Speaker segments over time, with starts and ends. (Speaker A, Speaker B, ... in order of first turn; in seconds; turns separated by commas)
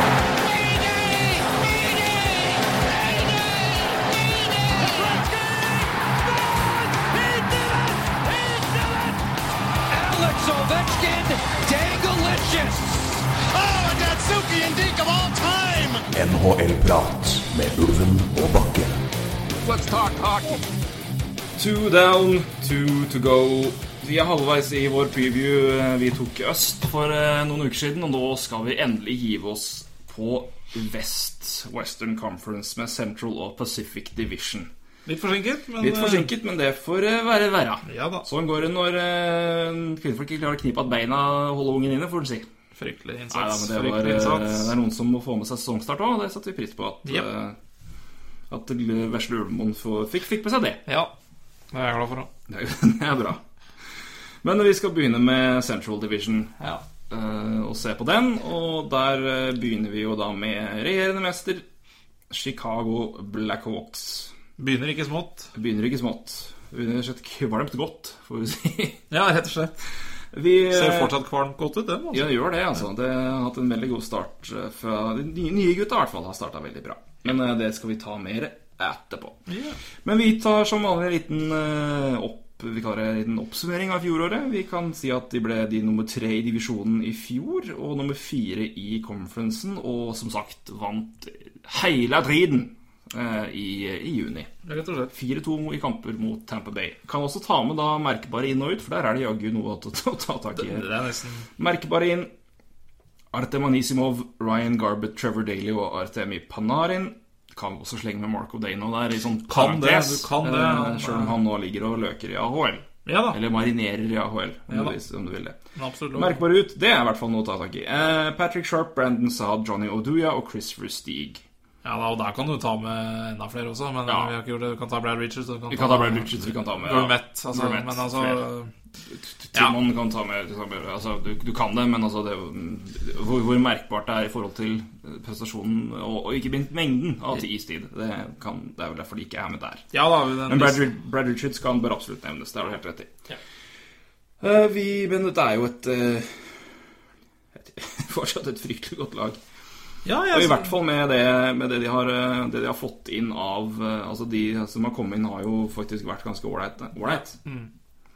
Speaker A: 0.2-9.2, Speaker B: 4.8-5.2, Speaker A: 9.9-13.4, Speaker B: 13.5-16.1, Speaker C: 16.1-19.0, Speaker B: 19.6-20.6, Speaker D: 21.6-34.7, Speaker E: 35.1-36.3, Speaker D: 35.8-42.5, Speaker E: 37.9-38.3, Speaker E: 42.8-44.7, Speaker D: 43.3-47.6, Speaker D: 48.5-50.8, Speaker E: 50.9-51.1, Speaker E: 51.7-52.3, Speaker D: 52.5-53.4, Speaker D: 54.4-56.6, Speaker E: 56.6-56.8, Speaker D: 57.1-61.6, Speaker D: 62.3-64.3, Speaker E: 64.6-65.5, Speaker D: 65.5-69.0, Speaker E: 69.1-69.8, Speaker D: 70.3-71.1, Speaker E: 70.7-72.3, Speaker D: 72.1-79.4, Speaker E: 79.5-79.8, Speaker D: 80.0-94.5, Speaker E: 94.7-95.1, Speaker D: 95.1-100.9, Speaker E: 100.5-101.5, Speaker D: 101.6-102.3, Speaker D: 103.3-115.6, Speaker E: 109.5-111.4, Speaker E: 113.1-113.4, Speaker E: 114.7-115.0, Speaker E: 115.8-116.4, Speaker D: 116.1-121.4, Speaker E: 121.8-128.7, Speaker D: 124.1-124.3, Speaker D: 125.7-128.4, Speaker D: 129.2-139.9, Speaker E: 139.9-140.9, Speaker D: 140.5-143.1, Speaker D: 144.4-146.7, Speaker D: 147.5-149.4, Speaker E: 150.1-150.8, Speaker D: 150.3-157.4, Speaker E: 157.1-157.7